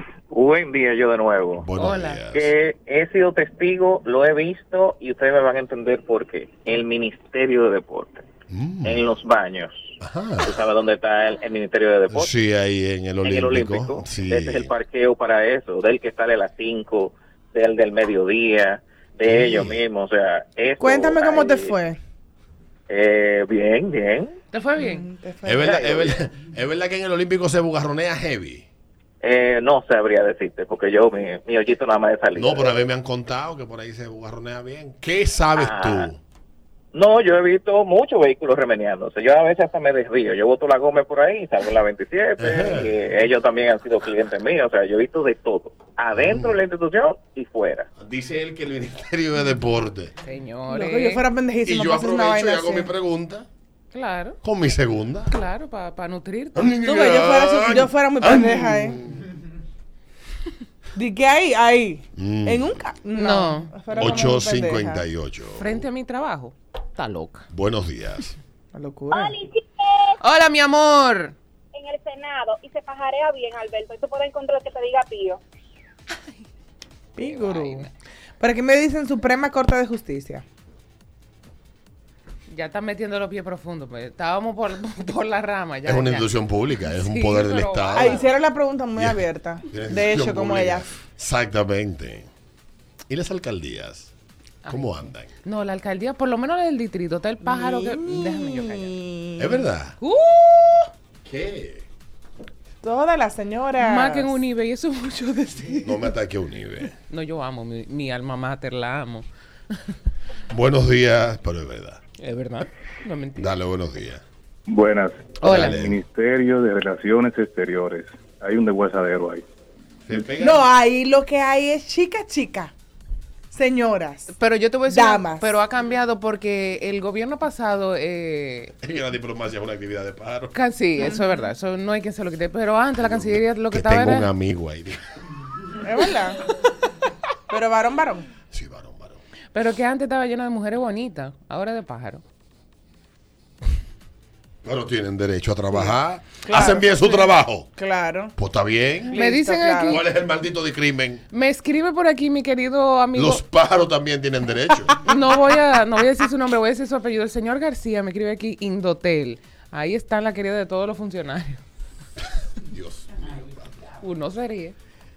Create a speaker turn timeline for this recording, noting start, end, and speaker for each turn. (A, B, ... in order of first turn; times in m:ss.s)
0:00.3-0:01.7 A
0:01.6-0:02.5 B
0:01.8-0:02.2 C
0:02.3-0:08.2 A
0:08.5-0:09.2 B
0:08.8-0:12.3 A
0:10.0-0:10.6 B
0:12.1-0:14.7 B
0:13.2-0:21.8 A
0:19.3-0:19.8 B
0:20.8-0:22.0 D
0:22.9-0:24.4 A
0:24.5-0:25.1 C
0:24.8-0:25.8 D
0:25.5-0:28.7 B
0:25.6-0:26.2 A
0:29.2-0:32.7 A
0:32.4-0:36.2 B
0:35.6-0:36.1 A
0:36.9-0:47.9 A
0:42.4-0:42.9 B
0:46.1-0:46.6 B
0:48.0-0:50.1 B
0:50.2-0:51.2 C
0:50.7-0:52.9 D
0:51.7-0:53.5 B
0:53.9-0:54.4 C
0:54.4-0:55.3 B
0:55.3-0:56.7 C
0:56.6-0:59.3 B
0:56.8-0:59.0 D
1:01.0-1:05.1 D
1:02.2-1:02.9 B
1:03.2-1:04.2 C
1:04.0-1:05.8 B
1:05.6-1:07.5 C
1:07.5-1:08.4 B
1:08.7-1:09.4 D
1:09.1-1:10.1 E
1:10.2-1:11.4 C
1:11.7-1:15.4 E
1:17.2-1:17.9 D
1:17.2-1:17.9 C
1:18.4-1:20.4 D
1:22.5-1:28.2 C
1:25.8-1:28.2 B
1:28.0-1:30.9 D
1:29.7-1:32.3 B
1:33.1-1:34.1 B
1:34.7-1:35.3 B
1:35.4-1:39.0 C
1:37.4-1:39.6 D
1:39.4-1:40.0 B
1:40.0-1:40.9 C
1:41.2-1:41.9 B
1:42.8-1:44.4 D
1:43.8-1:46.1 C
1:45.8-1:47.0 B
1:47.1-1:49.9 C
1:50.5-1:52.0 B
1:52.2-1:53.6 C
1:53.4-1:54.2 B
1:54.7-1:59.4 F
1:55.4-1:55.9 C
1:55.4-1:56.0 B
2:00.1-2:00.6 B
2:00.4-2:02.7 D
2:03.5-2:04.3 D
2:04.3-2:08.8 C
2:04.9-2:05.5 D
2:08.8-2:10.6 B
2:10.5-2:14.3 C
2:11.0-2:11.5 D
2:13.0-2:15.0 B
2:15.8-2:16.4 D
2:17.5-2:18.3 D
2:18.5-2:19.2 B
2:19.5-2:22.2 C
2:24.6-2:27.7 B
2:25.7-2:28.4 D
2:28.4-2:29.2 B
2:29.1-2:30.0 D
2:29.1-2:30.0 C
2:29.8-2:31.2 B
2:31.3-2:33.4 C
2:33.1-2:35.0 B
2:35.0-2:41.6 C
2:42.6-2:43.8 B
2:44.0-2:44.8 C